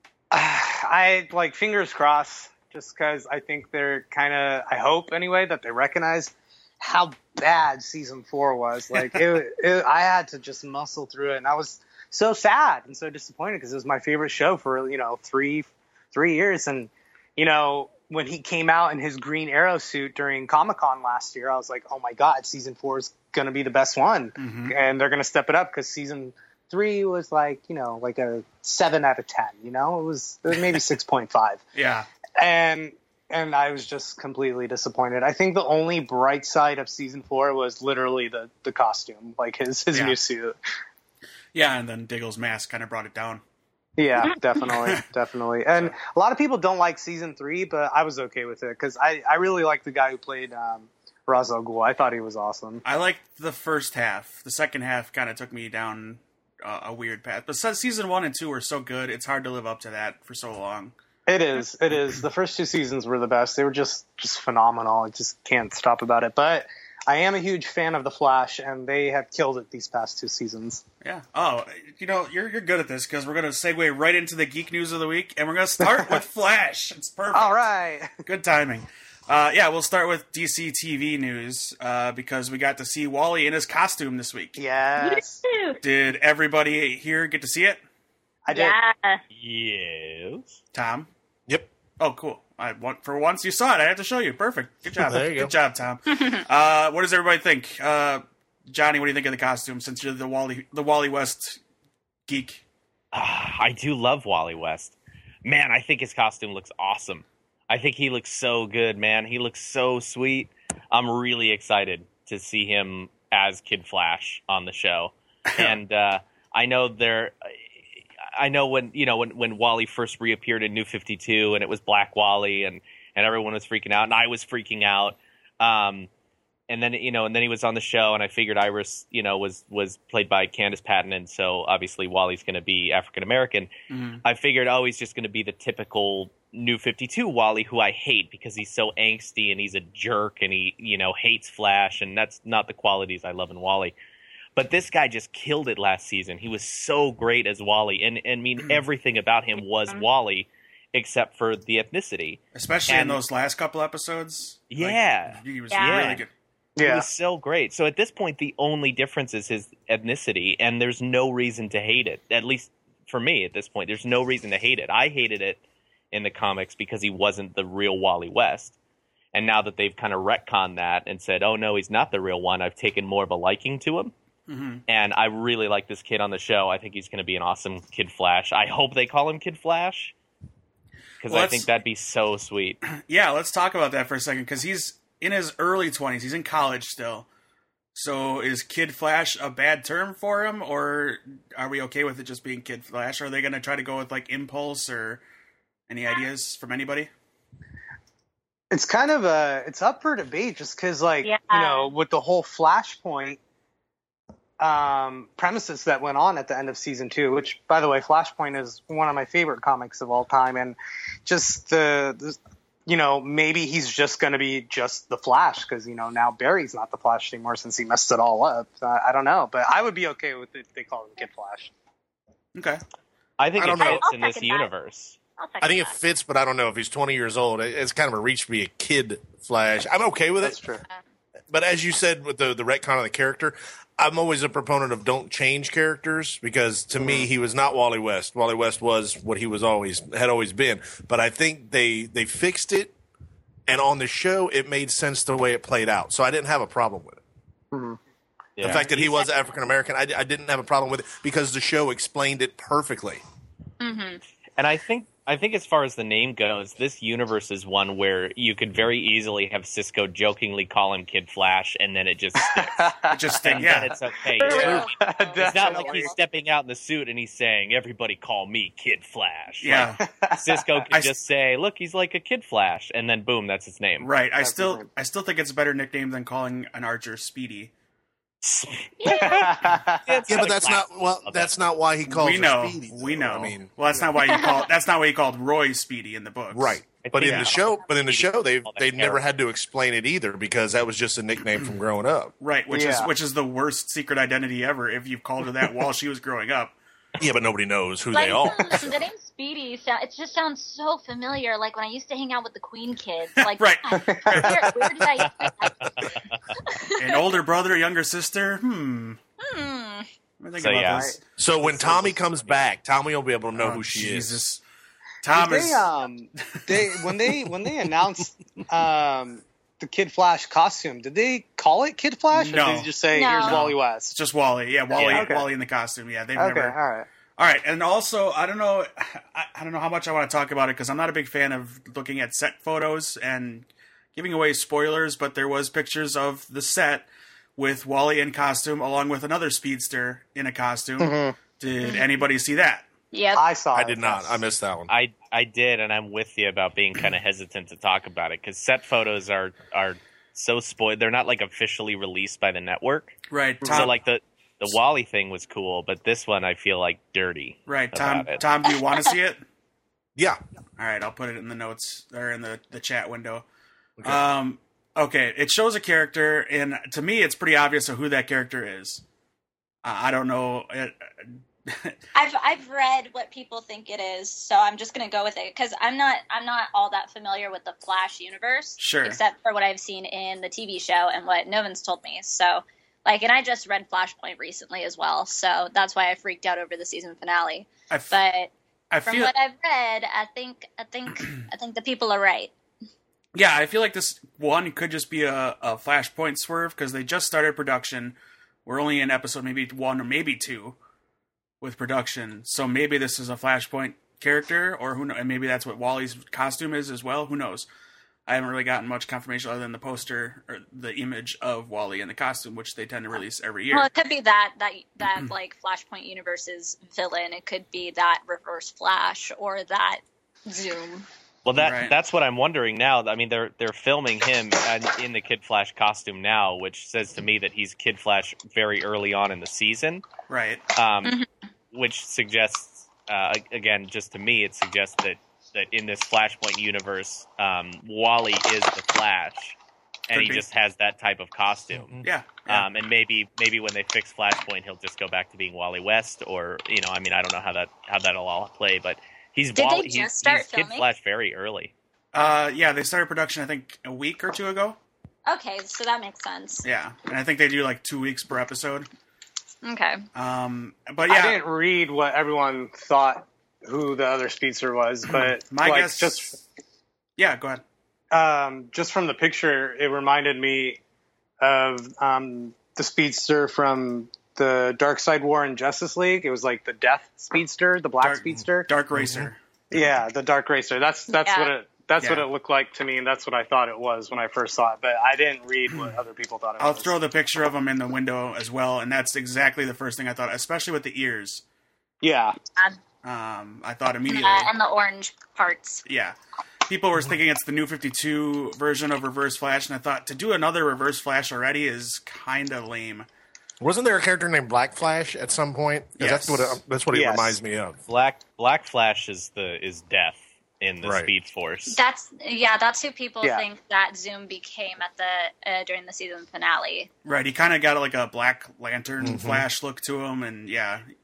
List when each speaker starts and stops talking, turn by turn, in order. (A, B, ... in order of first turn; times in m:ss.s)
0:00.3-0:31.6 A
0:24.4-0:24.8 B
0:31.8-0:32.1 B
0:32.4-0:40.6 A
0:39.9-0:40.2 B
0:41.5-0:43.4 B
0:44.0-0:52.8 A
0:44.7-0:45.0 B
0:52.8-1:00.9 B
1:01.3-1:10.8 A
1:11.0-1:17.6 B
1:15.8-1:16.2 A
1:17.3-1:18.1 A
1:18.2-1:24.6 B
1:24.6-1:25.4 A
1:25.0-1:25.8 C
1:25.8-1:27.8 B
1:28.5-1:28.8 A
1:28.5-1:29.2 C
1:29.3-1:30.6 D
1:30.7-1:31.1 B
1:32.0-1:41.6 B
1:35.0-1:35.5 E
1:36.1-1:36.4 C
1:42.3-1:42.6 B
1:43.1-1:57.6 D
1:55.5-1:55.8 B
1:58.3-2:06.1 D
2:06.7-2:13.7 D
2:13.9-2:14.2 B
2:14.2-2:24.0 D
2:24.6-2:33.2 D
2:32.5-2:36.3 B
2:34.7-2:36.2 D
2:35.7-2:36.1 C
2:36.8-2:37.1 A
2:36.8-2:45.6 D
2:46.1-2:48.8 D
2:49.3-2:54.1 D
2:54.5-2:54.8 B
2:54.9-3:00.1 D
3:01.2-3:02.8 D
3:01.3-3:01.7 B
3:03.0-3:07.3 B
3:07.9-3:15.2 B
3:15.9-3:17.1 B
3:18.7-3:23.4 A
3:21.2-3:21.9 C
3:24.6-3:41.7 A
3:42.6-3:42.8 B
3:43.4-3:45.2 D
3:43.6-3:44.0 E
3:43.8-3:44.7 C
3:45.4-3:46.0 C
3:45.6-3:50.6 E
3:50.4-3:50.8 A
3:51.5-4:02.9 E
3:57.0-3:57.3 A
4:03.7-4:07.2 E
4:07.7-4:08.0 A
4:08.6-4:09.0 D
4:08.6-4:13.2 E
4:13.8-4:14.2 C
4:14.6-4:22.8 D
4:22.4-4:26.1 A
4:23.1-4:24.0 B
4:23.4-4:34.1 D
4:24.4-4:26.1 C
4:29.6-4:30.0 B
4:30.0-4:30.8 A
4:34.0-4:37.7 B
4:34.4-4:34.9 A
4:38.4-4:41.5 D
4:39.0-4:39.6 C
4:39.1-4:40.2 A
4:40.3-4:43.7 E
4:42.1-4:47.5 B
4:44.2-4:44.6 C
4:46.5-4:52.3 E
4:47.0-4:49.2 D
4:52.4-4:56.8 B
4:52.7-4:53.1 A
4:57.2-4:59.0 E
4:58.1-5:07.3 C
5:03.4-5:05.1 B
5:04.0-5:04.5 A
5:05.8-5:06.4 D
5:07.0-5:09.2 B
5:09.4-5:10.1 C
5:10.4-5:11.7 B
5:10.6-5:11.1 D
5:10.9-5:11.2 A
5:11.4-5:14.4 E
5:11.7-5:12.1 A
5:13.6-5:14.6 B
5:15.2-5:15.9 B
5:15.3-5:24.2 A
5:16.6-5:17.2 B
5:22.3-5:26.8 B
5:23.1-5:23.7 C
5:24.9-5:25.5 A
5:25.0-5:25.3 D
5:26.4-5:27.1 A
5:27.4-5:42.9 B
5:41.0-5:41.4 A
5:41.8-5:42.1 C
5:43.1-5:43.4 C
5:43.4-5:44.4 A
5:43.7-5:44.9 E
5:44.9-5:58.4 D
5:53.3-5:53.9 B
5:53.6-5:53.9 A
5:57.7-5:59.4 B
6:00.8-6:03.4 B
6:04.0-6:04.2 E
6:04.0-6:09.0 B
6:09.8-6:12.0 B
6:12.2-6:28.5 C
6:18.8-6:19.2 B
6:27.9-6:28.2 B
6:28.9-6:29.3 B
6:29.1-6:32.5 C
6:33.4-6:40.8 B
6:41.6-6:47.7 B
6:48.3-6:53.9 B
6:53.7-7:01.1 C
7:01.4-7:10.0 D
7:01.6-7:02.0 B
7:10.3-7:10.6 B
7:10.8-7:11.2 D
7:11.7-7:19.6 D
7:20.1-7:31.7 D
7:20.1-7:20.4 B
7:21.7-7:22.1 E
7:22.0-7:22.7 B
7:29.6-7:30.9 C
7:32.1-7:34.8 B
7:35.3-7:36.7 C
7:36.6-7:38.9 B
7:39.6-7:40.0 C
7:40.1-7:41.4 B
7:41.1-7:46.4 A
7:45.1-7:46.4 B
7:47.2-7:47.6 B
7:48.1-7:50.8 A
7:51.4-7:58.7 A
7:58.0-7:59.4 B
7:58.9-7:59.3 E
7:59.7-8:06.9 A
8:01.2-8:01.5 C
8:02.0-8:02.3 B
8:05.7-8:06.0 B
8:06.6-8:11.4 B
8:12.0-8:12.4 A
8:13.0-8:14.5 B
8:14.1-8:15.8 C
8:15.9-8:16.2 B
8:16.7-8:23.1 B
8:23.6-8:27.8 E
8:26.0-8:26.6 B
8:26.9-8:27.4 A
8:27.9-8:31.8 D
8:30.8-8:31.1 E
8:31.7-8:36.9 C
8:37.0-8:40.9 B
8:39.0-8:39.5 E